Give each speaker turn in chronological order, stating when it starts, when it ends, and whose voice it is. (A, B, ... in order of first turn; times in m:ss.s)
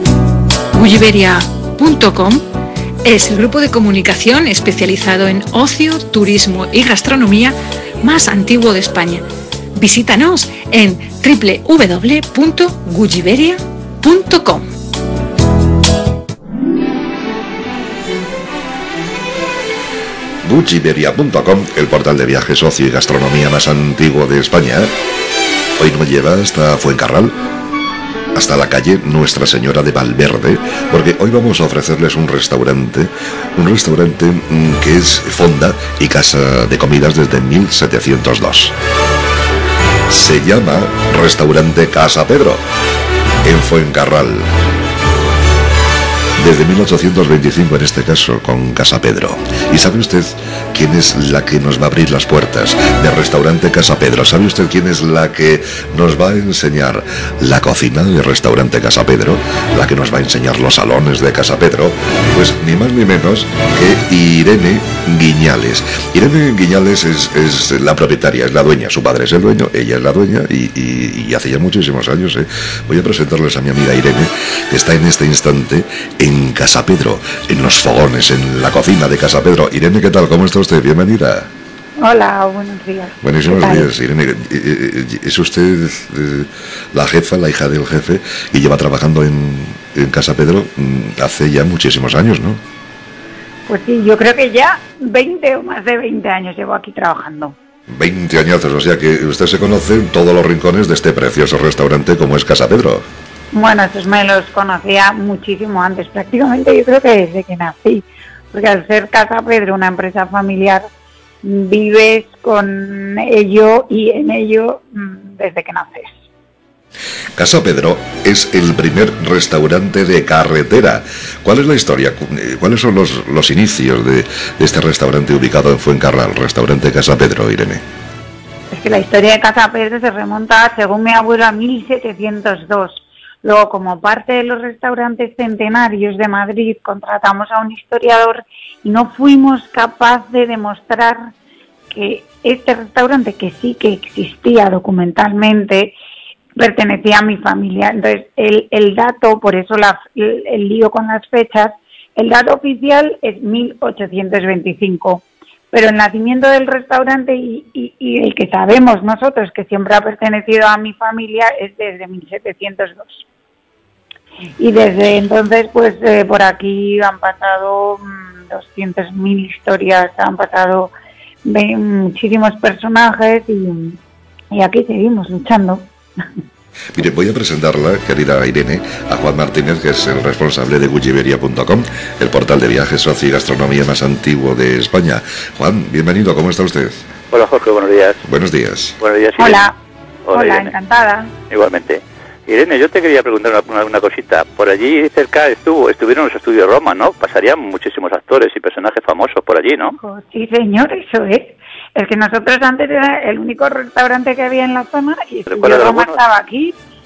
0:00.8-0:02.4 A
0:03.0-0:14.6 A
0:20.4-0:24.9 B
0:25.8-0:27.4 B
0:28.4-0:38.7 B
0:40.1-0:42.6 B
0:43.4-0:44.5 B
0:46.4-1:21.5 B
1:22.0-1:23.9 C
1:23.2-1:32.6 B
1:33.7-1:37.6 C
1:37.9-1:43.1 B
1:43.5-1:50.9 C
1:51.4-1:56.2 C
1:57.4-2:07.8 B
2:08.7-2:21.2 C
2:21.9-2:26.0 C
2:26.6-2:43.3 C
2:44.6-2:50.9 C
2:51.4-2:54.0 C
2:54.5-2:55.9 C
2:57.0-3:07.1 B
3:07.3-3:08.2 D
3:08.2-3:09.0 B
3:09.0-3:09.6 D
3:09.4-3:09.8 C
3:10.2-3:10.7 D
3:10.3-3:11.3 C
3:11.5-3:20.0 D
3:20.0-3:26.8 C
3:25.5-3:26.2 D